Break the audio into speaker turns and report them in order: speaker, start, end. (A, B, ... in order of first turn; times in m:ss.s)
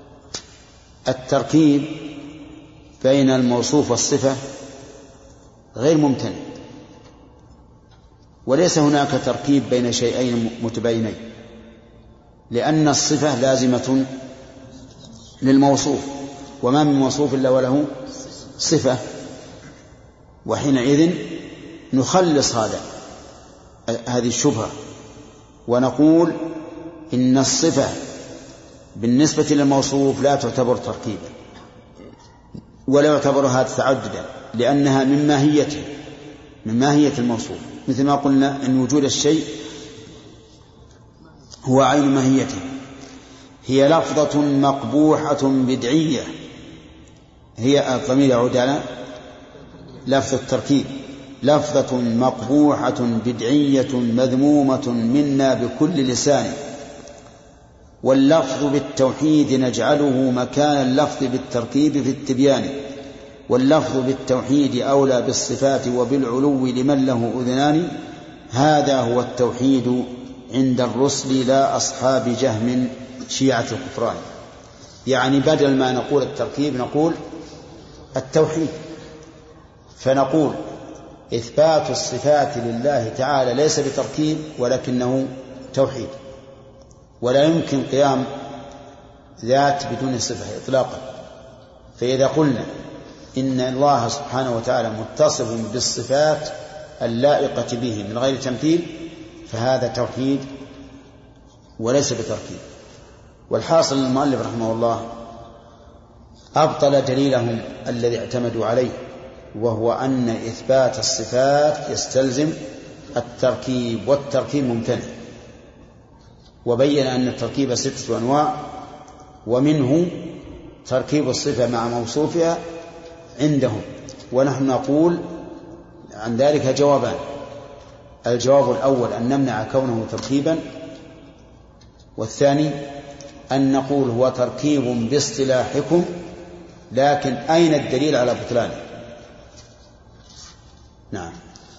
0:01.1-0:02.1 A
0:03.0-0:04.4 A
0:05.8-0:06.4 A
0:08.4-0:11.2 A
0:12.5-0:14.1 A
0:15.4-0:17.9 A
0:18.6-0:19.0 A
0:20.4-0:22.8 A
0:23.9-0:24.7 A
0:25.7-0:26.5 A
0:27.1-0:28.0 A
0:29.0-0:31.3 A
0:32.9-0:35.9 A
0:36.6-0:39.6 A
0:41.6-0:42.6 A
0:43.6-0:46.3 A
0:47.6-0:48.9 A
0:50.0-0:56.6 A
0:58.0-1:02.9 A
1:03.5-1:08.0 A
1:08.5-1:14.2 A
1:15.0-1:17.2 A
1:18.1-1:18.8 A
1:20.0-1:20.6 A
1:21.3-1:26.1 A
1:27.2-1:28.3 A
1:29.4-1:31.1 A
1:32.0-1:32.7 A
1:33.4-1:40.5 A
1:41.8-1:42.6 A
1:43.5-1:45.1 A
1:46.6-1:49.0 A
1:49.5-1:52.6 A
1:53.1-1:55.2 A
1:56.6-1:58.8 A
1:59.4-2:02.6 A
2:03.4-2:05.2 A
2:06.2-2:07.2 A
2:08.2-2:10.7 A
2:12.2-2:12.9 A
2:13.5-2:16.2 A
2:16.9-2:18.8 A
2:21.1-2:21.4 A